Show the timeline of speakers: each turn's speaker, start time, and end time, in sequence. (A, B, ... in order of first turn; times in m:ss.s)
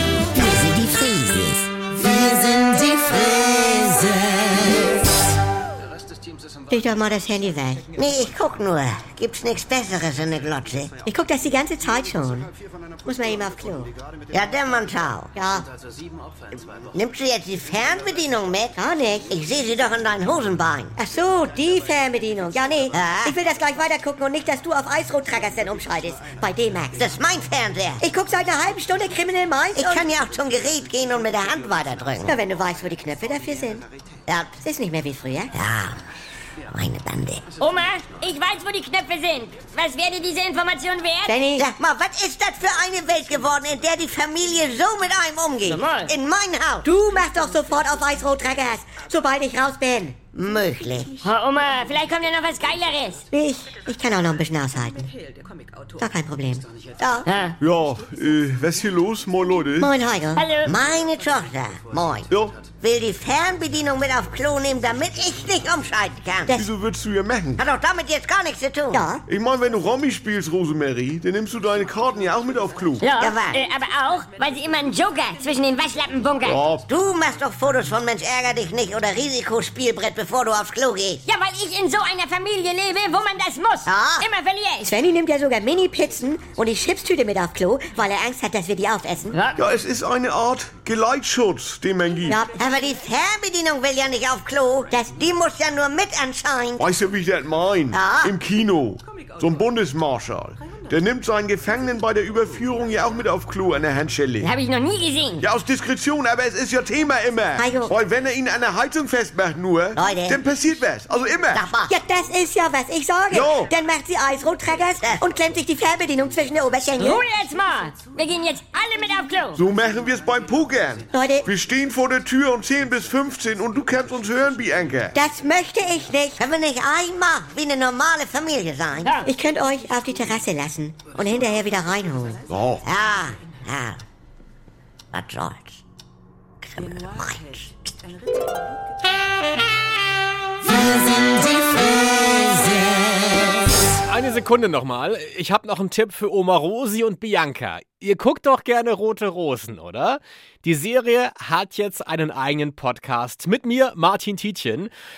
0:00.3-0:04.8 A
0:06.7-0:07.9 B
0:08.0-0:10.9 A
0:11.0-0:12.5 B
0:13.0-0:13.9 B
0:14.3-0:15.3 A
0:15.3-0:15.7 B
0:16.9-0:18.8 A
0:18.8-0:19.3 B
0:19.3-0:21.0 A
0:21.0-0:27.0 B
0:22.9-0:23.4 A
0:27.0-0:28.0 A
0:28.0-0:30.1 B
0:29.7-0:32.3 A
0:32.2-0:33.8 B
0:34.3-0:34.6 A
0:34.6-0:35.6 B
0:35.6-0:36.0 A
0:36.7-0:37.4 A
0:37.6-0:41.4 C
0:41.3-0:41.7 B
0:41.6-0:46.8 A
0:45.6-0:46.1 C
0:46.8-0:50.3 B
0:50.3-0:51.2 A
0:51.2-0:53.2 C
0:53.2-0:55.1 B
0:56.0-0:57.3 B
0:57.3-0:57.6 C
0:57.6-0:59.9 D
0:59.8-1:00.5 B
1:00.4-1:00.8 C
1:00.6-1:06.6 A
1:02.3-1:02.6 D
1:06.5-1:07.6 D
1:07.6-1:09.0 A
1:08.9-1:09.2 B
1:09.3-1:13.1 D
1:13.0-1:16.6 C
1:13.2-1:13.6 A
1:16.4-1:16.9 D
1:16.9-1:21.2 A
1:21.2-1:24.9 C
1:23.8-1:24.3 A
1:24.8-1:29.4 B
1:29.3-1:29.6 C
1:29.6-1:32.4 D
1:32.3-1:32.6 B
1:32.6-1:36.8 A
1:36.8-1:44.5 D
1:37.9-1:38.3 A
1:44.4-1:45.5 C
1:45.4-1:51.7 D
1:47.6-1:48.0 B
1:50.0-1:50.4 A
1:51.5-1:51.9 A
1:51.8-1:57.2 B
1:53.3-1:53.7 D
1:57.0-1:59.6 C
1:59.6-2:05.2 D
2:01.1-2:01.5 B
2:05.1-2:06.5 B
2:06.4-2:09.2 A
2:09.0-2:09.3 C
2:09.2-2:12.4 B
2:12.5-2:12.8 D
2:12.8-2:14.0 A
2:15.1-2:15.8 A
2:16.6-2:17.7 A
2:23.9-2:34.9 E